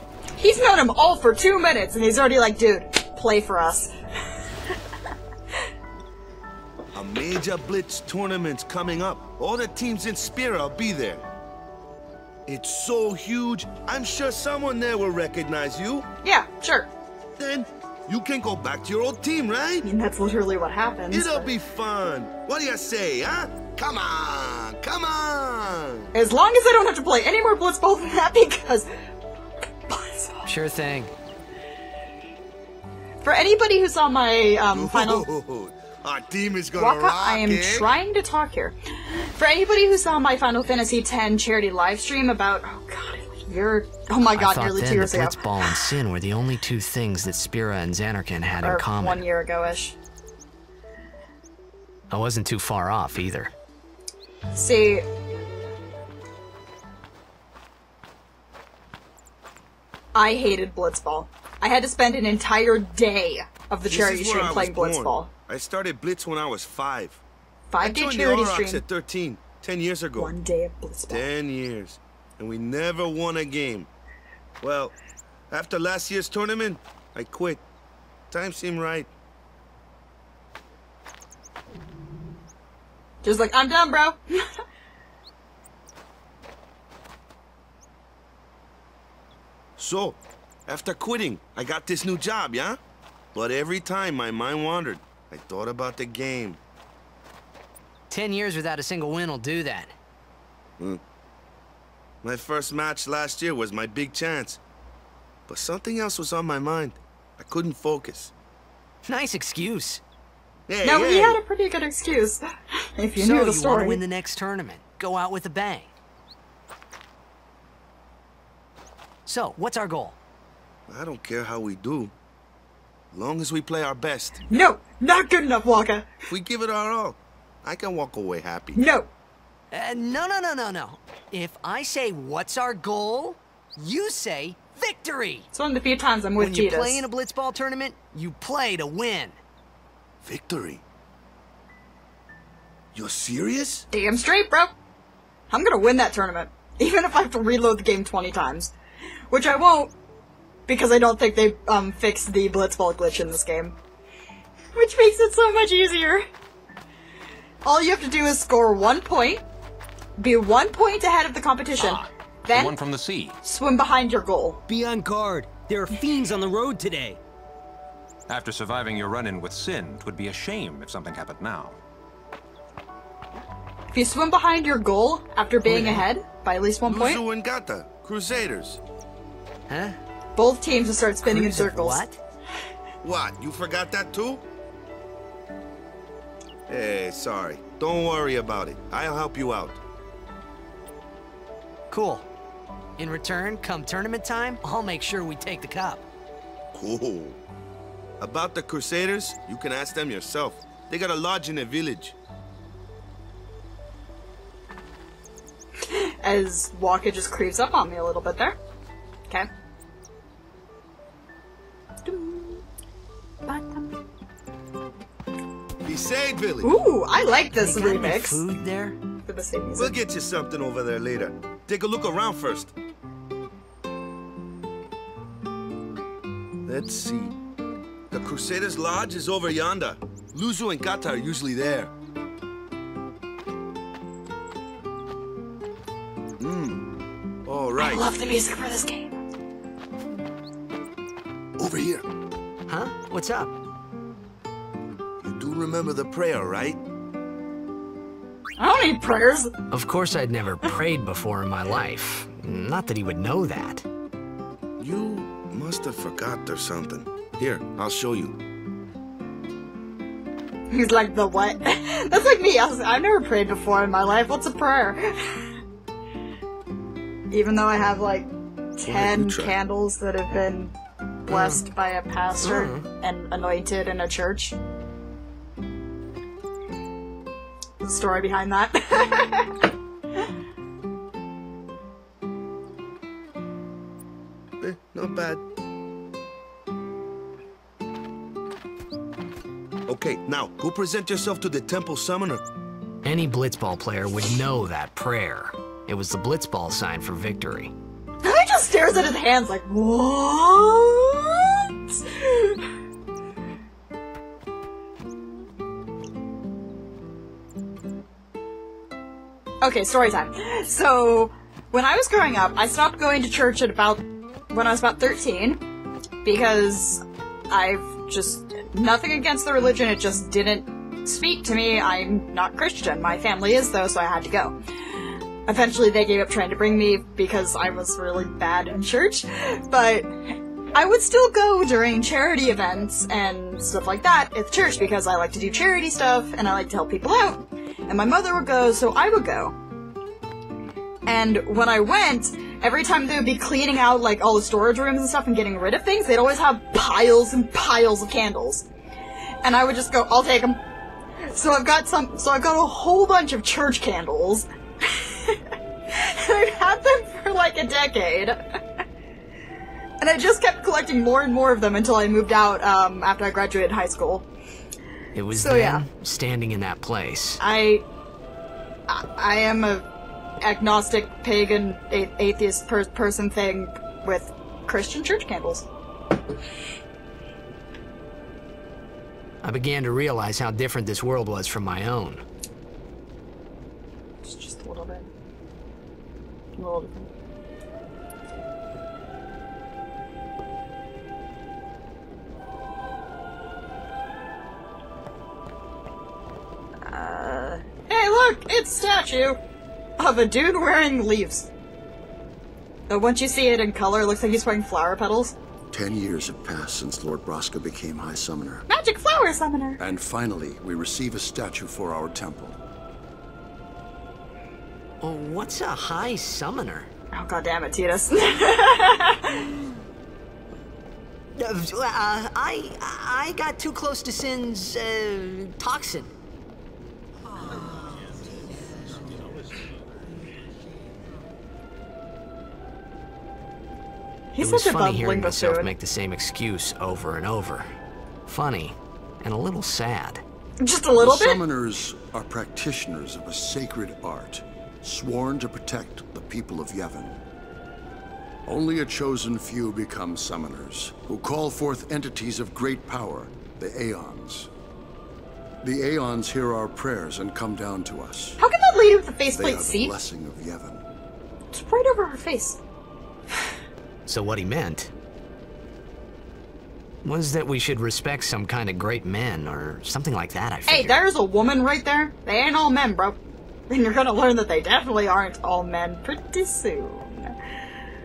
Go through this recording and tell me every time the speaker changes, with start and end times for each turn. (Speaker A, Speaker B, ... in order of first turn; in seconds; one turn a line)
Speaker A: 0.4-3.9
Speaker B: 6.9-11.2
Speaker B: 12.5-16.1
Speaker A: 16.2-16.9
Speaker B: 17.4-19.9
Speaker A: 19.8-21.5
Speaker B: 21.1-26.1
Speaker A: 26.1-28.9
Speaker A: 29.9-30.5
Speaker C: 30.5-31.1
Speaker A: 33.2-35.3
Speaker B: 34.7-37.9
Speaker A: 36.8-45.9
Speaker C: 44.2-49.2
Speaker A: 48.6-50.0
Speaker C: 52.1-53.5
Speaker A: 54.5-55.0
Speaker A: 60.1-65.3
Speaker B: 63.9-67.2
Speaker A: 67.7-68.8
Speaker B: 67.8-70.3
Speaker A: 70.2-71.3
Speaker B: 71.1-73.9
Speaker B: 74.6-75.0
Speaker B: 75.5-77.6
Speaker B: 78.3-79.1
Speaker A: 83.2-84.2
Speaker B: 89.8-92.8
Speaker B: 93.3-96.6
Speaker C: 98.1-99.9
Speaker B: 102.2-104.6
Speaker B: 105.5-108.3
Speaker C: 109.0-110.0
Speaker B: 110.7-111.4
Speaker A: 110.8-112.4
Speaker A: 113.0-114.0
Speaker C: 113.2-115.9
Speaker C: 119.2-120.2
Speaker B: 120.9-122.1
Speaker B: 123.1-124.4
Speaker A: 124.5-126.1
Speaker B: 126.3-128.8
Speaker A: 128.8-129.1
Speaker C: 129.7-135.5
Speaker A: 135.5-137.1
Speaker C: 136.4-139.4
Speaker B: 140.2-140.8
Speaker B: 142.9-143.9
Speaker A: 143.9-144.7
Speaker A: 145.5-148.7
Speaker A: 149.3-149.9
Speaker A: 150.7-153.8
Speaker A: 154.8-156.2
Speaker A: 157.7-159.4
Speaker A: 160.2-162.8
Speaker D: 161.8-163.4
Speaker A: 163.4-164.6
Speaker E: 164.7-167.2
Speaker D: 168.3-171.8
Speaker A: 173.9-177.2
Speaker C: 175.7-176.1
Speaker B: 176.9-178.8
Speaker C: 179.7-180.0
Speaker A: 180.4-182.1
Speaker C: 181.2-182.2
Speaker B: 183.0-184.4
Speaker B: 186.7-189.8
Speaker C: 191.9-192.3
Speaker C: 193.0-196.0
Speaker B: 196.7-197.4
Speaker B: 198.2-202.2
Speaker A: 205.9-208.6
Speaker A: 212.0-212.6
Speaker A: 213.4-214.0
Speaker B: 215.8-216.7
Speaker A: 216.6-218.4
Speaker C: 217.6-219.0
Speaker A: 219.3-220.0
Speaker B: 219.8-222.7
Speaker B: 226.7-227.4
Speaker B: 228.1-231.9
Speaker B: 236.4-236.8
Speaker B: 237.4-238.1
Speaker A: 237.8-239.2
Speaker B: 241.6-242.0
Speaker C: 242.7-243.5
Speaker B: 245.2-246.8
Speaker A: 248.6-249.5
Speaker C: 249.7-253.8
Speaker B: 254.8-258.4
Speaker A: 260.7-265.5
Speaker A: 267.3-274.6
Speaker B: 268.9-269.6
Speaker C: 271.3-271.6
Speaker C: 272.4-272.9
Speaker A: 277.8-279.6
Speaker B: 284.6-285.4
Speaker B: 289.9-292.4
Speaker C: 293.0-297.7
Speaker A: 298.2-302.6
Speaker A: 309.6-315.6
Speaker A: 316.2-330.1
Speaker A: 330.7-339.6
Speaker A: 341.1-348.7
Speaker A: 349.4-350.6
Speaker A: 351.2-358.4
Speaker A: 360.0-364.3
Speaker C: 365.1-367.4
Speaker A: 365.3-365.8
Speaker A: 367.4-367.9
Speaker A: 368.9-369.9
Speaker A: 370.4-375.7
Speaker C: 379.4-382.2
Speaker A: 384.2-385.1
Speaker A: 386.6-387.1
Speaker A: 396.8-399.4
Speaker A: 400.0-401.5
Speaker A: 402.9-405.4
Speaker F: 405.7-408.6
Speaker A: 408.7-409.8
Speaker F: 409.8-412.6
Speaker C: 415.0-416.9
Speaker A: 417.1-419.5
Speaker C: 421.4-426.1
Speaker A: 434.3-435.7
Speaker C: 434.4-437.7
Speaker C: 438.3-440.2
Speaker A: 440.6-441.4
Speaker F: 441.0-447.2
Speaker F: 448.5-454.5
Speaker F: 455.6-458.4
Speaker A: 458.4-459.9
Speaker F: 459.4-460.8
Speaker A: 461.5-462.6
Speaker C: 464.1-464.9
Speaker C: 467.0-471.0
Speaker A: 470.7-473.2
Speaker A: 473.7-477.3